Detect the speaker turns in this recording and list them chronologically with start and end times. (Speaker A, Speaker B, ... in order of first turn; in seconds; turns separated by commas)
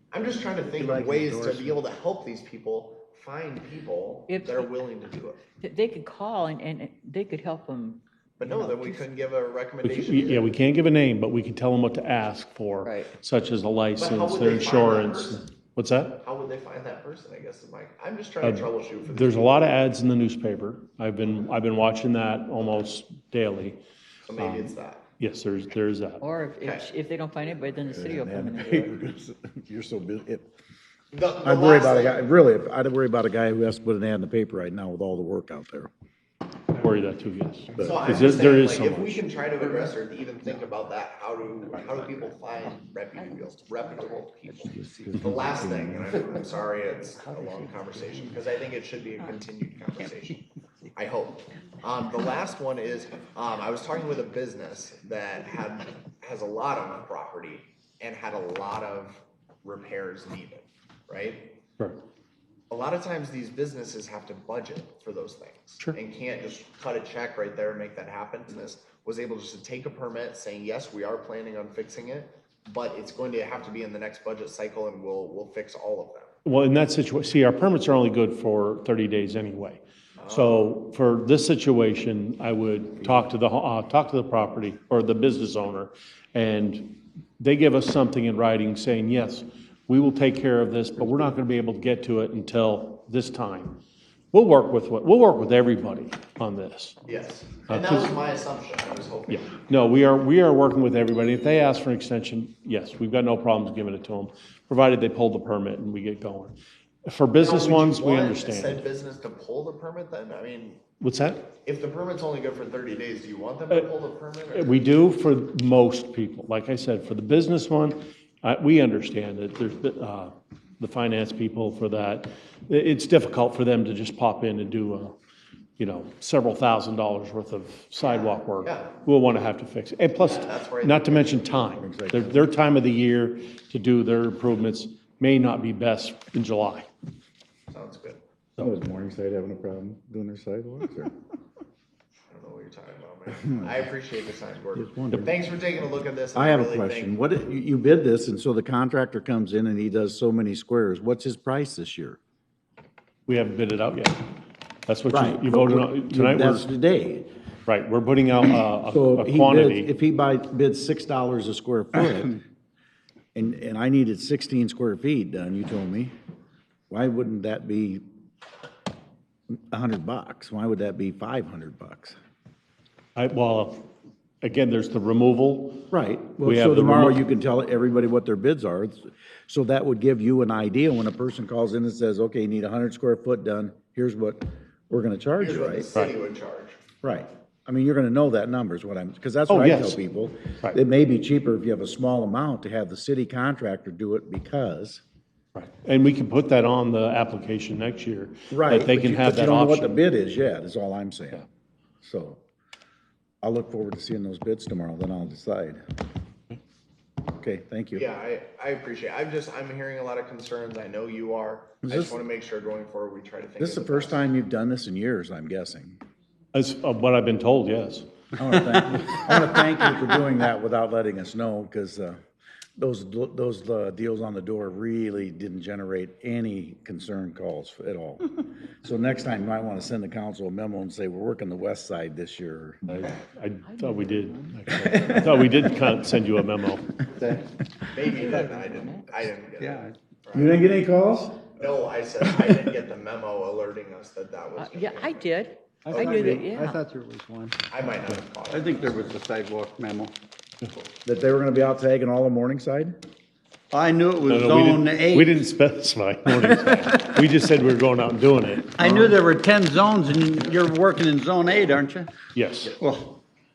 Speaker A: 0.1-5.4, Speaker B: 0.7-1.8, Speaker C: 4.3-4.8, Speaker C: 5.6-9.0, Speaker A: 8.4-10.5, Speaker D: 9.8-16.2, Speaker C: 12.8-13.1, Speaker A: 14.0-15.4, Speaker A: 16.2-19.8, Speaker D: 18.4-23.8, Speaker A: 24.3-25.1, Speaker D: 24.4-26.3, Speaker C: 26.2-28.9, Speaker A: 26.6-26.9, Speaker E: 27.9-30.5, Speaker A: 31.1-32.3, Speaker E: 31.4-35.9, Speaker D: 36.7-39.2, Speaker E: 37.8-38.1, Speaker A: 37.8-61.6, Speaker E: 44.8-46.2, Speaker A: 62.7-76.3, Speaker D: 76.5-93.8, Speaker A: 80.2-80.7, Speaker D: 94.3-97.0, Speaker A: 97.1-99.6, Speaker D: 97.7-98.1, Speaker D: 99.3-108.8, Speaker A: 107.4-110.8, Speaker D: 111.0-111.5, Speaker A: 111.6-114.8, Speaker D: 114.5-125.2, Speaker D: 125.8-136.9, Speaker A: 128.0-128.9, Speaker A: 130.2-131.8, Speaker E: 131.8-132.5, Speaker A: 137.7-138.2, Speaker E: 138.6-141.1, Speaker A: 142.3-147.1, Speaker E: 144.8-145.4, Speaker E: 146.3-152.2, Speaker D: 153.3-154.2, Speaker D: 154.9-156.7, Speaker E: 155.1-157.3, Speaker D: 157.7-159.9, Speaker E: 158.9-162.4, Speaker E: 163.3-166.1, Speaker E: 166.9-168.0, Speaker E: 169.6-172.2, Speaker D: 173.2-173.9, Speaker D: 174.4-177.2, Speaker E: 175.9-185.9, Speaker A: 185.4-186.8, Speaker E: 187.0-195.0, Speaker D: 189.5-190.0, Speaker D: 195.6-200.0, Speaker E: 198.5-201.4, Speaker E: 202.0-202.4, Speaker E: 203.4-205.8, Speaker E: 207.3-208.1, Speaker A: 207.9-214.3, Speaker E: 211.8-212.2, Speaker E: 213.6-216.0, Speaker D: 216.5-218.1, Speaker E: 218.4-222.2, Speaker E: 222.8-232.8, Speaker D: 232.9-236.9, Speaker C: 233.7-234.5, Speaker A: 237.9-240.6, Speaker C: 238.1-239.0, Speaker E: 240.3-241.5, Speaker A: 241.6-245.3, Speaker C: 244.6-246.8, Speaker B: 245.8-247.7, Speaker A: 245.9-246.4, Speaker A: 247.7-249.2, Speaker E: 248.5-250.1, Speaker E: 251.1-253.0, Speaker E: 253.7-255.2, Speaker D: 254.2-259.1, Speaker E: 258.8-262.1, Speaker D: 262.3-262.8, Speaker E: 262.7-263.1